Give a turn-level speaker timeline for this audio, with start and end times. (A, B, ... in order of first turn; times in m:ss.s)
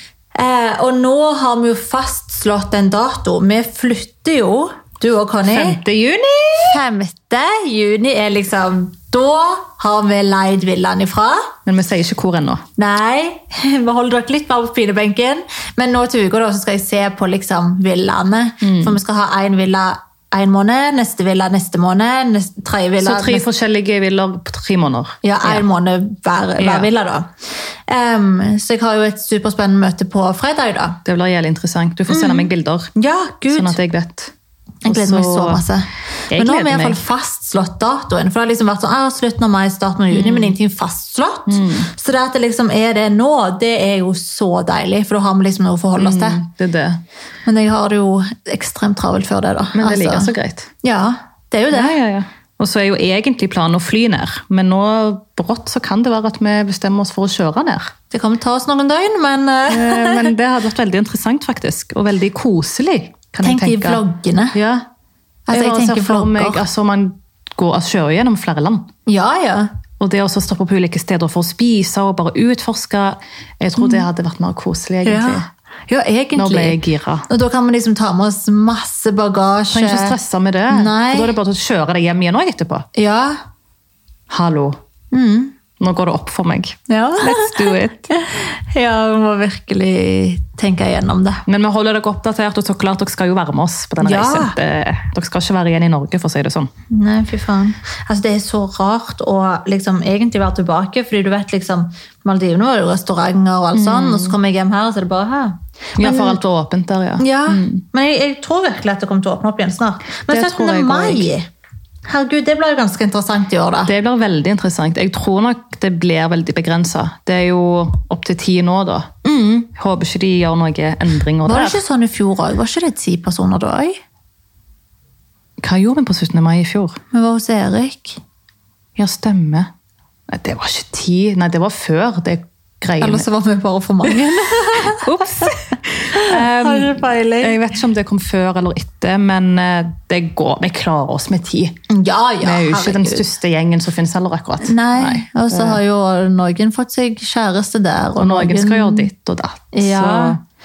0:00.3-0:05.8 A
0:05.4-0:06.8 B
0:06.7-0:11.5 A
0:11.6-0:12.6 B
0:12.8-0:23.4 A
0:18.6-0:19.0 B
0:23.0-0:25.6 B
0:25.2-0:27.3 A
0:26.6-0:26.9 B
0:27.9-0:31.0 A
0:31.0-0:32.9 B
0:32.1-0:33.8 A
0:33.5-0:34.3 B
0:34.8-0:46.4 A
0:34.8-0:35.6 B
0:36.3-0:37.0 B
0:40.1-0:40.6 B
0:41.5-0:41.9 B
0:46.0-0:47.0 B
0:47.4-0:50.3 A
0:49.7-0:50.7 B
0:50.8-0:52.0 A
0:51.7-0:57.9 B
0:58.1-1:00.3 A
0:59.7-1:04.0 B
1:03.4-1:04.6 A
1:04.5-1:04.8 B
1:05.5-1:06.6 A
1:05.5-1:08.9 B
1:09.0-1:09.7 A
1:10.0-1:15.5 B
1:13.8-1:14.1 A
1:15.0-1:20.2 A
1:16.3-1:17.3 B
1:19.7-1:22.9 B
1:20.7-1:21.3 A
1:22.9-1:23.4 A
1:24.3-1:24.8 B
1:25.1-1:25.5 A
1:25.8-1:28.1 B
1:26.9-1:31.4 A
1:31.4-1:36.7 B
1:34.0-1:34.6 A
1:36.9-1:46.4 A
1:43.7-1:44.3 B
1:46.0-1:47.8 B
1:47.2-1:51.5 A
1:50.3-1:51.3 B
1:52.0-1:53.9 A
1:53.8-2:01.8 B
1:59.2-1:59.6 A
2:01.4-2:04.0 A
2:05.6-2:07.0 B
2:07.1-2:08.2 A
2:09.0-2:09.7 B
2:10.3-2:13.2 B
2:13.0-2:15.5 A
2:14.2-2:21.8 B
2:16.1-2:17.6 A
2:21.9-2:23.2 A
2:22.4-2:25.8 B
2:24.6-2:29.1 A
2:28.2-2:30.4 B
2:29.7-2:30.4 A